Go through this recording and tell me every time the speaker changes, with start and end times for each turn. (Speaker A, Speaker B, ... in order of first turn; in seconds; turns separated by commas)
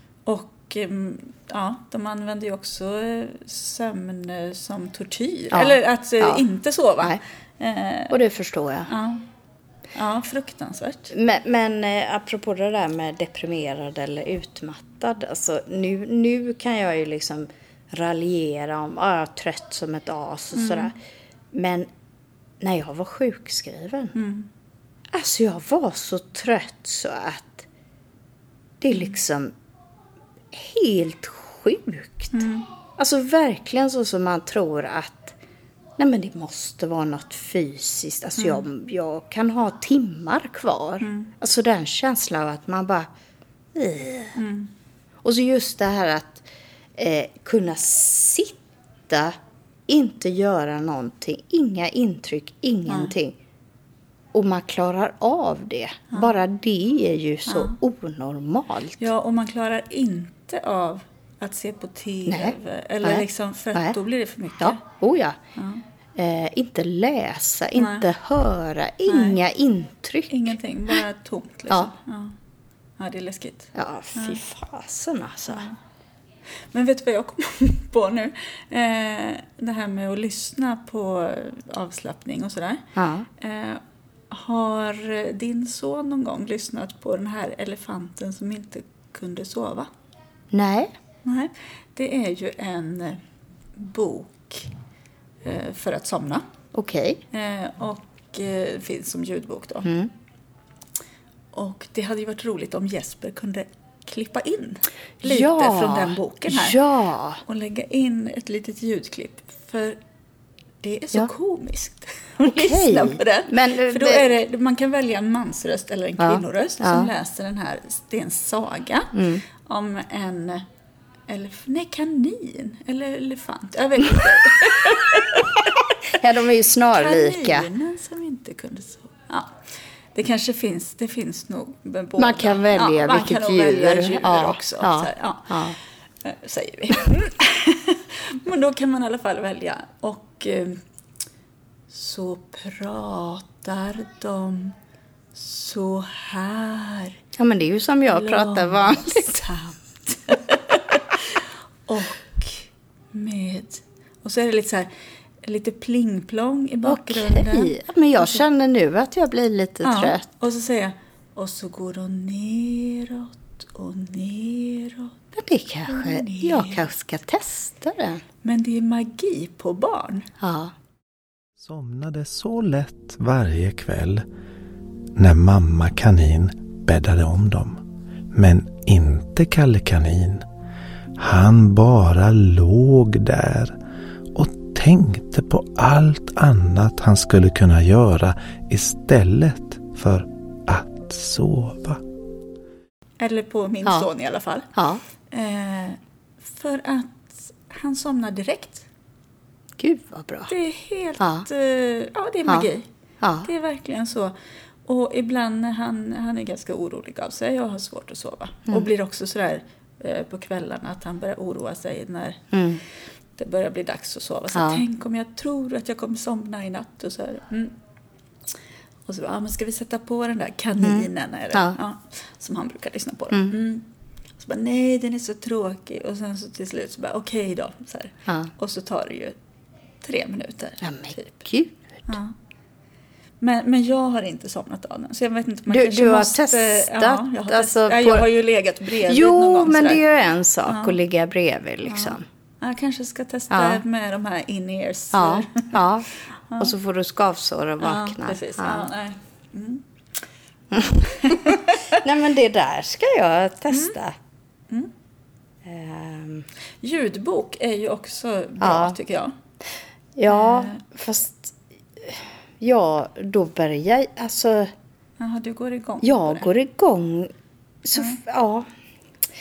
Speaker A: 0.2-8.2, Speaker B: 5.5-6.4, Speaker B: 8.1-8.9, Speaker A: 8.9-9.2, Speaker A: 9.9-11.1, Speaker B: 11.1-21.0, Speaker A: 20.5-20.9, Speaker B: 21.5-21.9, Speaker B: 22.6-24.1, Speaker A: 24.1-24.5, Speaker B: 25.1-27.7, Speaker B: 28.8-29.5, Speaker B: 30.5-32.4, Speaker A: 32.3-32.7, Speaker B: 33.0-35.4, Speaker B: 36.0-43.1, Speaker A: 38.4-38.6, Speaker A: 41.0-41.3, Speaker B: 43.7-44.4, Speaker A: 44.4-44.7, Speaker B: 45.2-46.4, Speaker B: 47.0-49.4, Speaker B: 49.9-53.4, Speaker A: 52.9-53.1, Speaker B: 54.3-59.1, Speaker A: 57.5-57.8, Speaker A: 59.0-64.8, Speaker B: 62.3-64.0, Speaker B: 64.6-65.4, Speaker A: 65.5-65.8, Speaker B: 66.2-70.5, Speaker A: 67.8-68.1, Speaker A: 69.1-69.4, Speaker A: 70.3-72.3, Speaker A: 73.0-74.4, Speaker B: 73.7-75.7, Speaker A: 75.5-75.8, Speaker A: 76.7-82.8, Speaker B: 83.0-83.3, Speaker A: 83.4-89.9, Speaker B: 90.5-90.9, Speaker A: 91.2-93.2, Speaker A: 93.7-94.7, Speaker A: 95.4-96.5, Speaker B: 96.7-97.2, Speaker A: 97.3-99.9, Speaker B: 99.8-100.1, Speaker A: 101.5-106.8, Speaker B: 105.2-107.4, Speaker A: 107.4-110.0, Speaker A: 110.8-120.6, Speaker B: 112.4-114.3, Speaker B: 116.2-117.1, Speaker B: 119.1-119.4, Speaker A: 121.3-125.9, Speaker B: 126.1-127.7, Speaker A: 126.9-140.8, Speaker B: 132.2-135.8, Speaker A: 141.9-144.8, Speaker A: 145.3-147.2, Speaker B: 147.3-149.4, Speaker A: 148.1-154.9, Speaker A: 155.4-158.4, Speaker B: 156.8-160.2, Speaker A: 159.8-165.2, Speaker B: 165.3-168.2, Speaker A: 165.9-166.9, Speaker A: 168.4-170.3, Speaker B: 170.4-170.7, Speaker C: 171.6-174.2, Speaker C: 175.2-177.8, Speaker C: 178.3-180.4, Speaker C: 181.2-183.8, Speaker C: 184.3-192.0, Speaker A: 193.2-194.7, Speaker B: 194.7-195.0, Speaker A: 195.3-198.9, Speaker B: 199.8-200.5, Speaker A: 200.5-202.9, Speaker B: 201.2-201.5, Speaker B: 203.2-203.5, Speaker A: 203.4-212.6, Speaker B: 212.5-212.8, Speaker A: 213.3-217.8, Speaker B: 214.5-214.8, Speaker A: 219.1-223.9, Speaker B: 220.8-221.8, Speaker A: 224.4-229.4, Speaker A: 230.0-231.4, Speaker B: 230.8-231.8, Speaker A: 232.1-232.3, Speaker A: 233.4-240.0, Speaker B: 235.7-238.3, Speaker B: 239.0-242.2, Speaker A: 240.7-241.0, Speaker A: 241.8-245.9, Speaker B: 243.5-243.8, Speaker B: 245.1-248.9, Speaker A: 247.8-249.8, Speaker B: 250.7-254.2, Speaker A: 250.7-252.0, Speaker B: 255.6-256.5, Speaker A: 256.8-259.3, Speaker B: 258.6-259.0, Speaker B: 260.1-264.7, Speaker A: 260.3-260.8, Speaker A: 265.2-266.5, Speaker B: 266.0-267.3, Speaker B: 267.8-268.7